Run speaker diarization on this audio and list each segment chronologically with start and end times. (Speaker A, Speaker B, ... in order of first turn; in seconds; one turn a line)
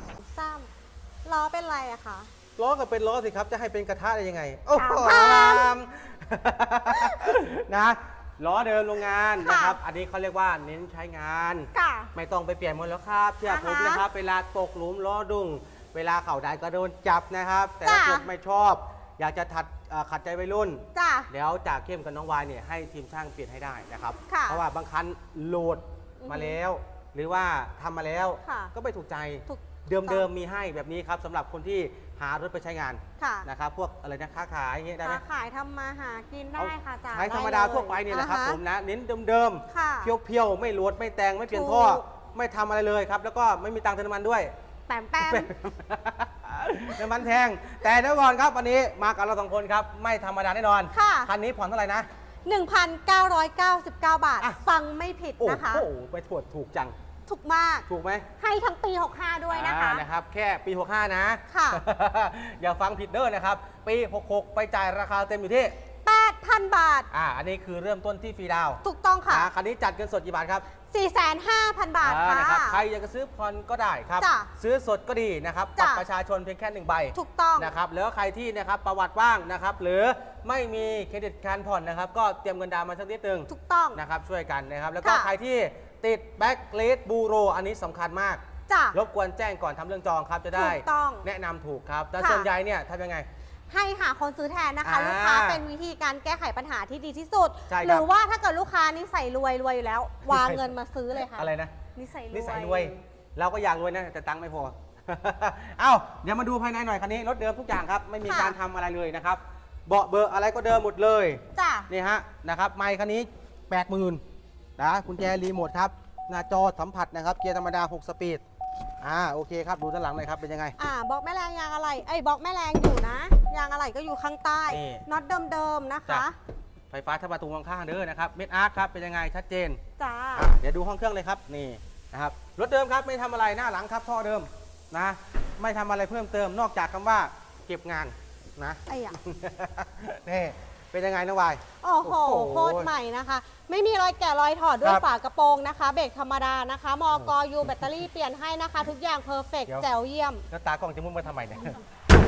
Speaker A: 0.2-0.7
Speaker A: 1.3-2.3
Speaker B: 2.6-35.2
Speaker A: 4.8-5.8
Speaker A: 9.4-9.8
Speaker A: 11.7-12.1
Speaker A: 13.4-14.1
Speaker A: 17.8-18.3
Speaker A: 20.9-21.3
Speaker A: 24.3-24.6
Speaker A: 26.2-26.6
Speaker A: 28.4-28.7
Speaker A: 29.5-30.3
Speaker A: 33.2-33.5
Speaker A: 35.0-38.6
Speaker B: 36.6-44.5
Speaker A: 39.7-40.1
Speaker A: 41.5-42.0
Speaker A: 44.9-45.5
Speaker B: 45.2-52.1
Speaker A: 50.9-51.3
Speaker A: 52.5-55.9
Speaker B: 55.4-56.9
Speaker A: 57.3-57.9
Speaker B: 57.9-58.3
Speaker A: 58.4-60.0
Speaker B: 59.5-65.8
Speaker A: 61.5-61.8
Speaker A: 66.0-67.1
Speaker B: 67.1-70.7
Speaker A: 68.8-69.5
Speaker A: 70.9-72.8
Speaker B: 72.0-88.4
Speaker A: 74.2-74.5
Speaker A: 75.8-76.0
Speaker A: 77.2-77.7
Speaker A: 83.5-84.0
Speaker A: 85.0-85.3
Speaker A: 88.7-89.0
Speaker B: 88.9-93.3
Speaker A: 90.5-91.3
Speaker A: 92.2-92.5
Speaker A: 93.7-102.9
Speaker B: 94.8-95.6
Speaker B: 97.7-98.1
Speaker B: 100.3-100.7
Speaker B: 101.3-101.7
Speaker B: 102.3-114.2
Speaker A: 108.2-108.6
Speaker A: 111.5-111.9
Speaker B: 114.8-118.4
Speaker B: 119.0-120.8
Speaker A: 120.8-126.3
Speaker B: 124.7-125.1
Speaker B: 126.9-129.8
Speaker A: 130.0-130.5
Speaker B: 130.4-142.9
Speaker A: 138.9-139.2
Speaker A: 141.8-150.4
Speaker B: 147.1-147.9
Speaker B: 150.5-151.8